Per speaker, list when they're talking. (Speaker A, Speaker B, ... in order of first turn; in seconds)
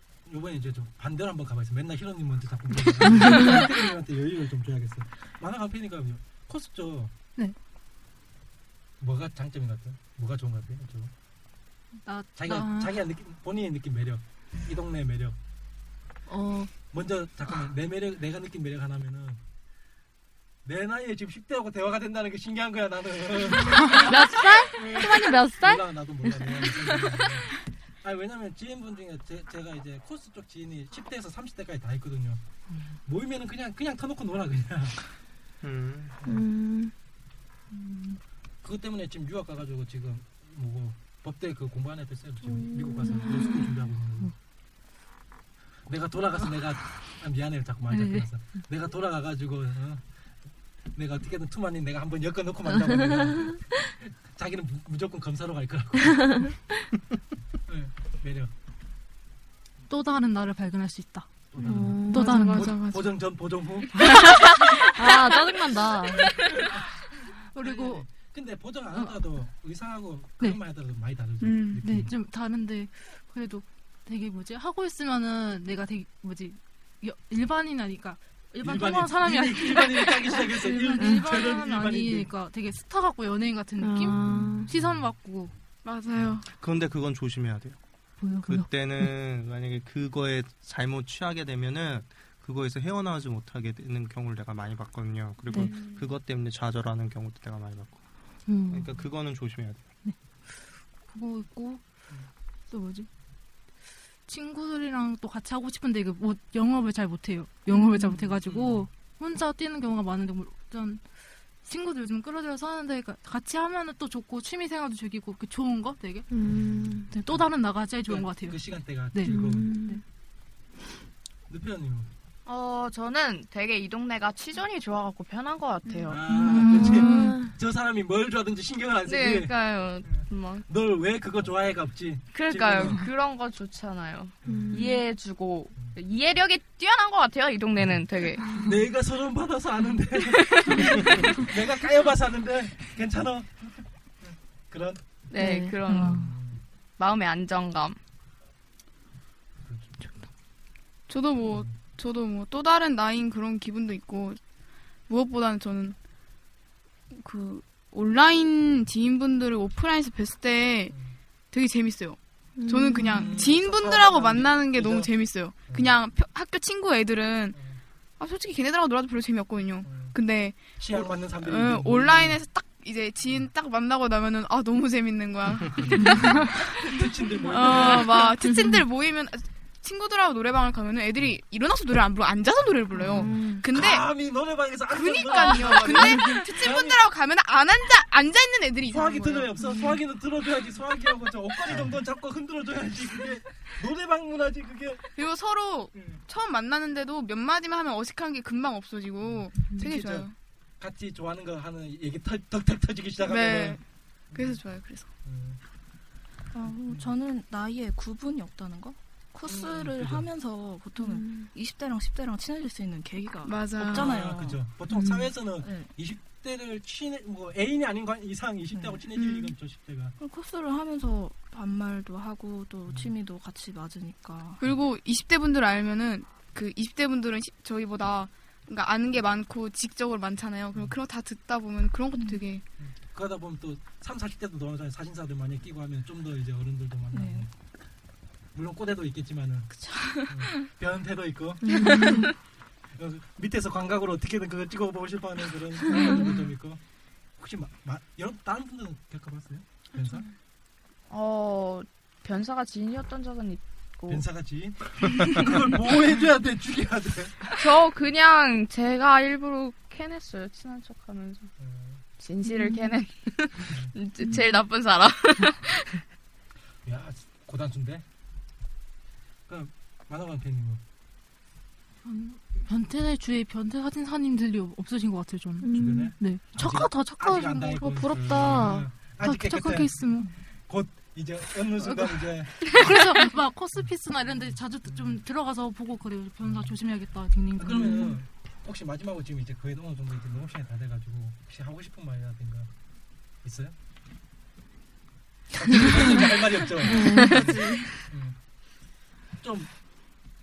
Speaker A: 0.3-7.1, 9.0-11.1, 12.4-15.4, 16.9-19.4, 20.6-24.1, 24.7-27.5, 28.0-32.4, 33.0-35.0, 38.6-44.3, 45.9-50.0, 51.0-56.5, 57.7-58.5, 61.5-64.3, 66.2-66.9, 67.6-72.1, 78.6-82.3, 84.1-85.1, 108.2-108.9, 116.4-119.7, 121.5-122.1, 126.1-133.1, 134.4-134.9, 138.6-145.0, 146.0-146.6, 149.7-149.9, 151.5-151.8, 160.9-161.2, 163.1-165.1, 165.7-166.0, 167.5-167.8, 169.8-170.2, 170.8-172.4, 175.8-178.3, 183.0-187.1, 188.9-195.1, 195.9-196.2, 199.2-200.3, 200.8-203.8, 204.3-204.6, 205.2-205.6, 206.7-207.1, 209.5-210.3, 213.8-220.2, 222.9-223.1, 232.8-237.5, 238.5-242.2, 242.9-246.8, 247.4-250.3, 254.1-257.6, 261.6-262.0, 266.9-268.1, 269.5-270.8, 275.7-283.1, 283.8-285.2, 286.4-286.8, 287.6-292.7, 293.4-293.7, 295.5-298.4, 299.4-299.7
Speaker B: 12.1-13.0, 16.3-16.7, 37.7-38.2, 47.9-48.3, 53.2-53.6, 59.9-62.8, 67.5-68.1, 68.9-69.2, 71.8-85.5, 88.2-89.1, 98.5-99.1, 100.0-101.8, 102.7-103.1, 104.3-111.0, 111.6-116.3, 117.1-120.0, 126.3-127.4, 272.1-278.5, 279.2-280.3, 282.7-288.2
Speaker C: 24.0-25.8, 36.2-36.9, 42.6-43.7, 61.6-62.4, 64.8-66.5, 83.8-84.7, 116.3-117.1, 119.3-120.0, 126.4-127.5, 134.5-135.0, 138.5-138.8, 145.4-145.8, 162.6-163.4, 183.1-183.6, 211.0-211.5, 214.9-215.3, 241.6-242.3, 275.6-276.1, 277.8-278.9, 296.8-297.8
Speaker D: 24.1-25.2, 122.5-126.2, 129.1-130.7, 132.3-138.5, 140.3-141.2, 145.3-146.2, 147.0-148.0, 185.3-186.6, 251.1-254.2, 257.6-261.5, 262.2-266.0, 296.9-298.0
Speaker E: 35.6-36.2, 86.5-87.8, 88.4-98.0, 98.7-99.9, 191.7-191.9
Speaker F: 62.1-63.1, 64.0-64.4, 71.4-71.8, 85.8-86.5, 95.6-96.1, 125.9-126.1, 151.1-154.4, 155.1-156.0, 157.1-160.9, 161.5-167.6, 168.2-184.1, 184.9-189.8, 195.2-200.3, 203.2-205.1, 213.4-214.1, 219.1-219.5, 224.6-232.6
Speaker G: 206.5-214.7, 215.6-215.9, 218.7-219.0, 220.2-224.6, 237.1-237.5, 239.7-240.7, 241.7-242.3